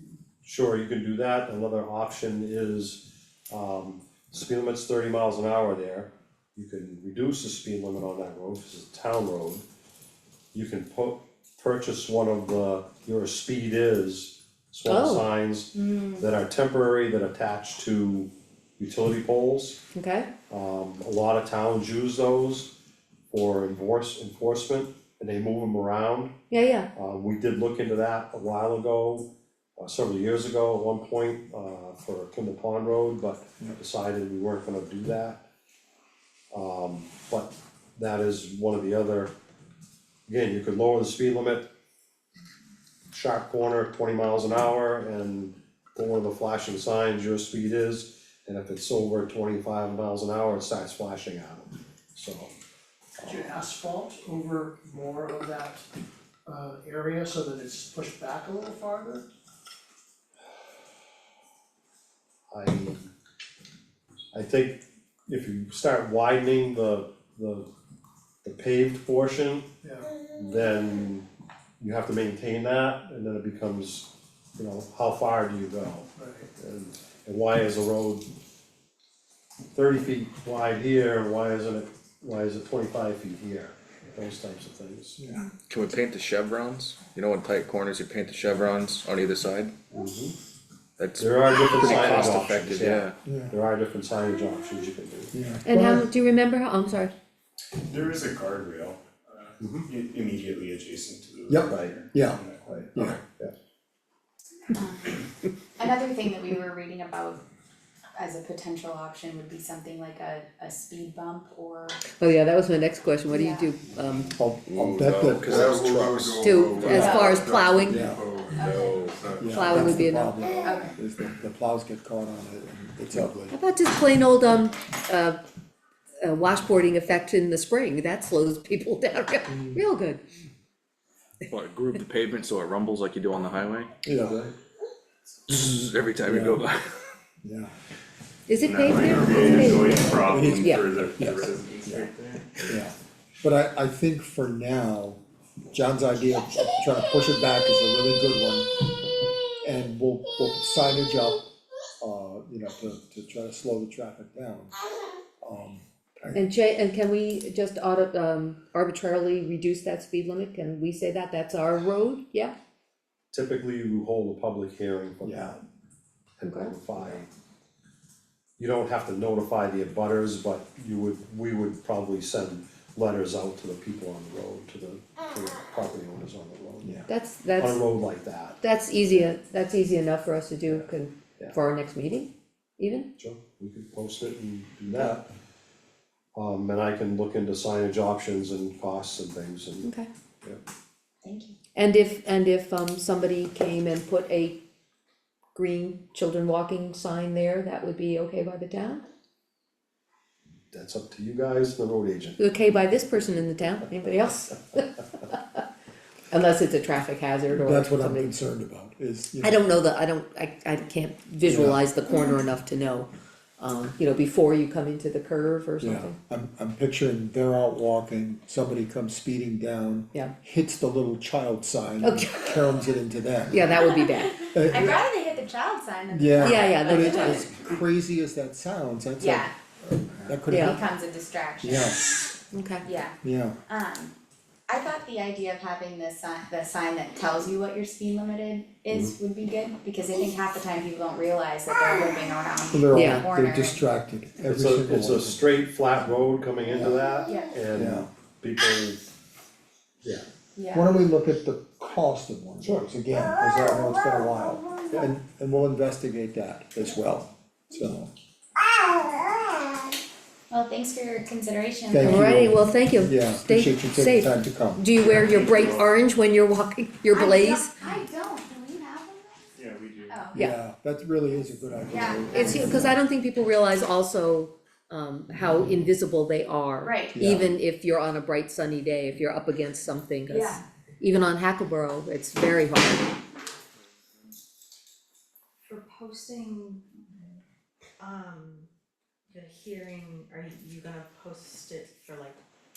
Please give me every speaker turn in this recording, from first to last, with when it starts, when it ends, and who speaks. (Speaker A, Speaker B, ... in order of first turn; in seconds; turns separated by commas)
Speaker A: 0.4-9.6, Speaker A: 10.5-19.8, Speaker B: 14.8-15.2, Speaker C: 15.7-16.3, Speaker B: 19.9-20.3, Speaker A: 20.5-22.7, Speaker A: 23.3-26.4, Speaker B: 26.5-26.9, Speaker A: 26.9-35.5, Speaker A: 36.5-39.3, Speaker A: 40.2-41.7, Speaker A: 43.1-52.5, Speaker D: 53.2-55.9, Speaker D: 56.5-59.2, Speaker A: 62.5-63.1, Speaker A: 64.3-67.7, Speaker A: 68.4-69.7, Speaker D: 69.8-70.1, Speaker A: 70.3-71.3, Speaker A: 71.8-76.1, Speaker D: 76.2-76.5, Speaker A: 76.6-78.3, Speaker A: 79.7-83.6, Speaker C: 81.2-81.8, Speaker C: 83.4-85.1, Speaker A: 84.3-85.2, Speaker E: 85.2-85.5, Speaker F: 85.7-89.7, Speaker A: 89.9-90.3, Speaker F: 91.0-93.2, Speaker C: 91.2-93.7, Speaker A: 91.8-92.6, Speaker E: 93.2-93.5, Speaker A: 93.7-95.3, Speaker C: 94.6-95.1, Speaker E: 95.3-96.1, Speaker B: 95.7-97.1, Speaker G: 97.8-103.2, Speaker E: 101.5-103.2, Speaker C: 104.7-105.1, Speaker C: 105.8-107.4, Speaker C: 108.2-112.0, Speaker B: 112.2-114.3, Speaker C: 113.3-113.7, Speaker E: 114.3-117.2, Speaker F: 114.7-116.2, Speaker A: 115.5-119.4, Speaker B: 116.4-118.2, Speaker C: 116.9-117.4, Speaker E: 117.8-118.3, Speaker C: 118.5-119.0, Speaker E: 119.4-123.5, Speaker B: 119.5-120.4, Speaker C: 120.5-121.0, Speaker B: 123.5-125.4, Speaker B: 126.2-130.2, Speaker F: 131.5-133.9, Speaker E: 134.0-134.5, Speaker F: 135.5-136.9, Speaker E: 136.2-136.6, Speaker E: 137.4-137.7, Speaker B: 138.5-140.9, Speaker G: 138.6-142.5, Speaker F: 139.1-139.4, Speaker E: 139.6-142.1, Speaker E: 142.7-145.2, Speaker E: 145.7-148.9, Speaker E: 149.6-151.4, Speaker E: 152.0-154.7, Speaker E: 155.4-156.4, Speaker B: 156.3-162.5, Speaker A: 163.3-165.6, Speaker E: 165.2-165.5, Speaker A: 166.4-167.3, Speaker B: 166.4-166.7, Speaker A: 168.6-176.9, Speaker E: 176.8-177.1, Speaker B: 177.1-177.8, Speaker A: 177.6-179.3, Speaker B: 178.6-183.1, Speaker A: 183.2-185.2, Speaker A: 186.3-189.9, Speaker C: 191.2-191.6, Speaker B: 191.7-194.6, Speaker B: 195.5-199.0, Speaker A: 200.7-202.4, Speaker B: 202.4-204.9, Speaker B: 206.3-208.3, Speaker E: 207.5-209.6, Speaker B: 209.4-216.2, Speaker E: 211.4-211.8, Speaker E: 215.8-223.8, Speaker B: 222.0-222.8, Speaker B: 223.5-224.5, Speaker C: 224.4-227.5, Speaker E: 224.5-225.0, Speaker E: 226.1-230.8, Speaker B: 226.4-227.5, Speaker C: 229.2-229.5, Speaker B: 230.5-230.8, Speaker C: 230.5-231.9, Speaker E: 231.6-232.0, Speaker B: 232.5-232.8, Speaker C: 232.8-234.1, Speaker E: 233.2-233.6, Speaker C: 234.7-243.8, Speaker E: 242.7-245.5, Speaker B: 242.9-243.3, Speaker A: 244.5-249.1, Speaker E: 246.7-246.9, Speaker C: 247.3-247.5, Speaker E: 247.7-248.1, Speaker C: 250.6-250.9, Speaker E: 250.7-258.1, Speaker C: 260.5-262.3, Speaker E: 261.9-265.0, Speaker B: 262.0-267.7, Speaker G: 265.0-265.9, Speaker C: 267.1-269.4, Speaker G: 269.5-270.3, Speaker E: 270.3-272.9, Speaker C: 271.9-272.8, Speaker B: 272.3-283.1, Speaker C: 276.8-277.1, Speaker E: 277.1-277.5, Speaker C: 280.3-280.6, Speaker H: 285.7-286.8, Speaker H: 288.0-288.7, Speaker H: 289.3-292.4